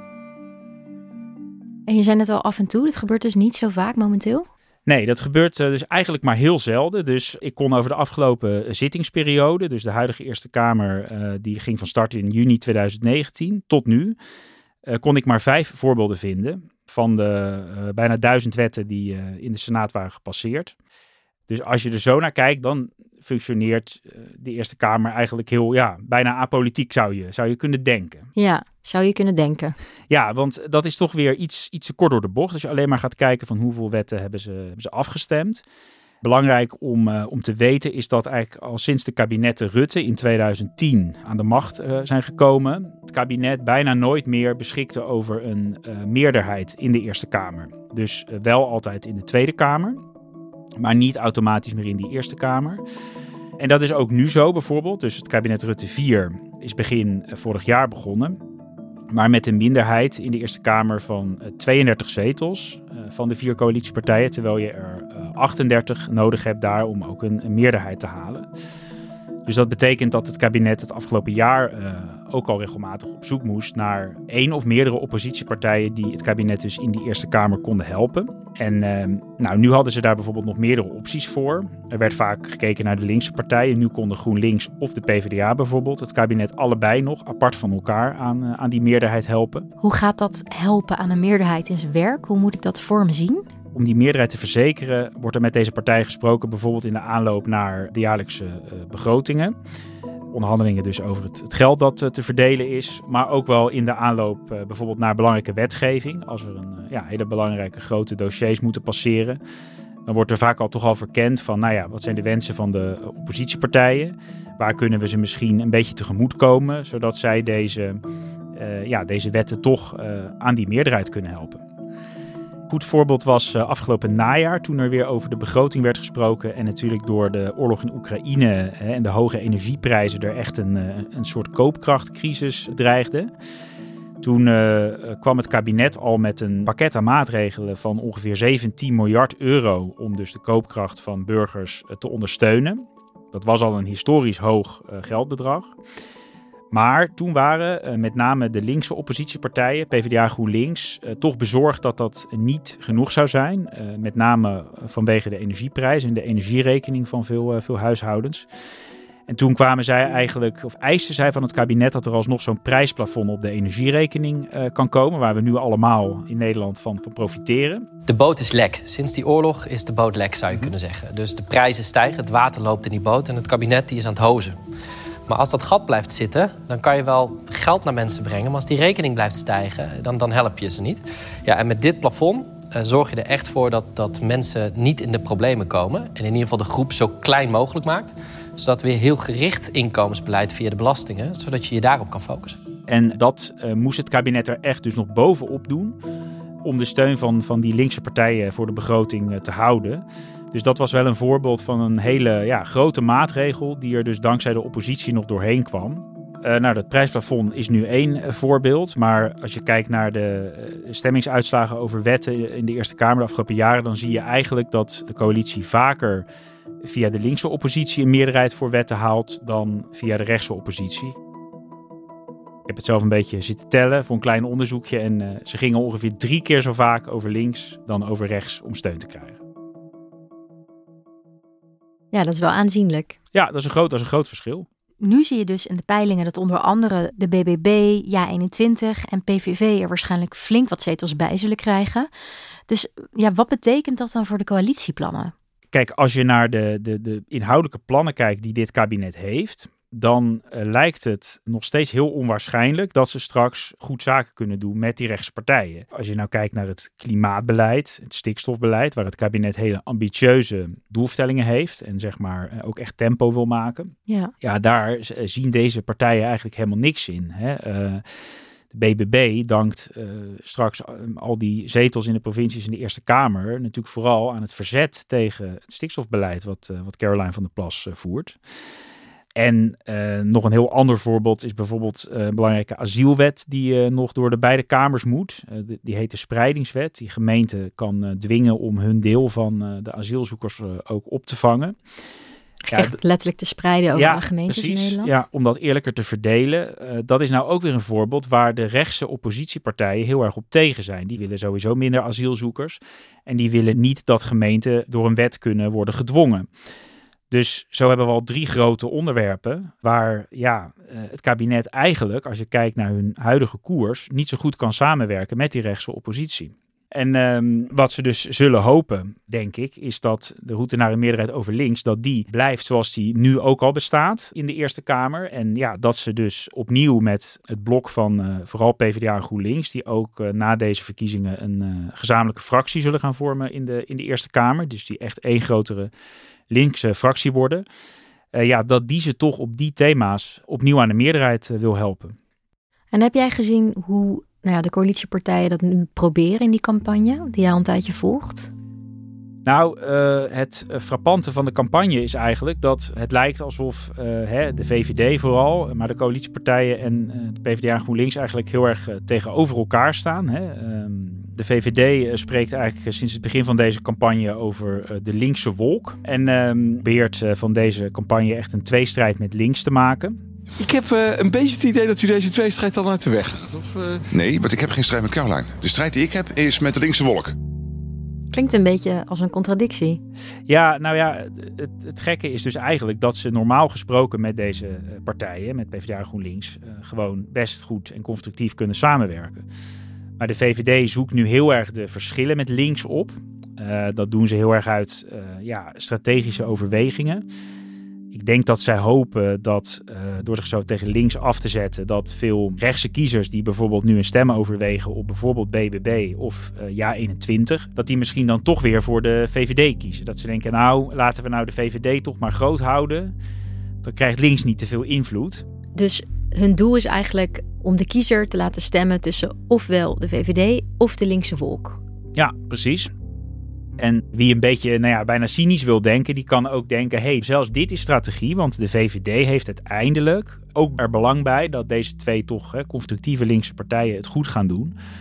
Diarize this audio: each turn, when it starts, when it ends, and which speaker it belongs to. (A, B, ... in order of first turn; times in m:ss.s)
0:01.9-0:04.5 A
0:04.8-0:14.2 B
0:14.9-0:20.7 B
0:21.5-0:28.3 B
0:28.4-0:29.8 A
0:30.1-0:35.6 B
0:36.2-0:50.0 B
0:50.8-0:52.8 B
0:53.6-0:58.4 B
0:59.1-1:08.5 B
1:09.4-1:29.7 B
1:29.8-1:33.5 A
1:33.7-1:39.5 B
1:40.3-1:49.4 B
1:50.0-1:58.0 B
1:58.6-2:01.6 B
2:02.7-2:13.3 B
2:14.2-2:25.7 B
2:26.7-2:38.5 B
2:39.3-2:47.9 B
2:48.1-2:54.6 C
2:55.3-3:12.6 C
3:12.9-3:16.0 B
3:16.6-3:36.2 B
3:36.8-3:41.2 B
3:42.7-3:49.4 B
3:52.1-3:53.2 A
3:53.3-3:54.6 B
3:55.0-4:02.1 A
4:02.7-4:05.3 A
4:05.7-4:28.0 B
4:24.1-4:24.3 A
4:28.7-4:38.4 B
4:39.4-4:51.8 B
4:52.6-4:55.2 A
4:53.9-5:06.5 B
5:07.3-5:35.9 B
5:36.5-5:37.6 B
5:38.3-5:42.2 B
5:42.9-5:48.5 A
5:49.4-6:10.2 B
6:10.6-6:14.0 D
6:14.1-6:17.3 E
6:18.3-6:20.0 A
6:20.5-6:29.4 B
6:30.2-6:37.2 B
6:38.1-6:53.1 B
6:53.8-6:55.4 B
6:55.8-7:01.8 A
7:02.2-7:02.9 B
7:03.8-7:14.7 B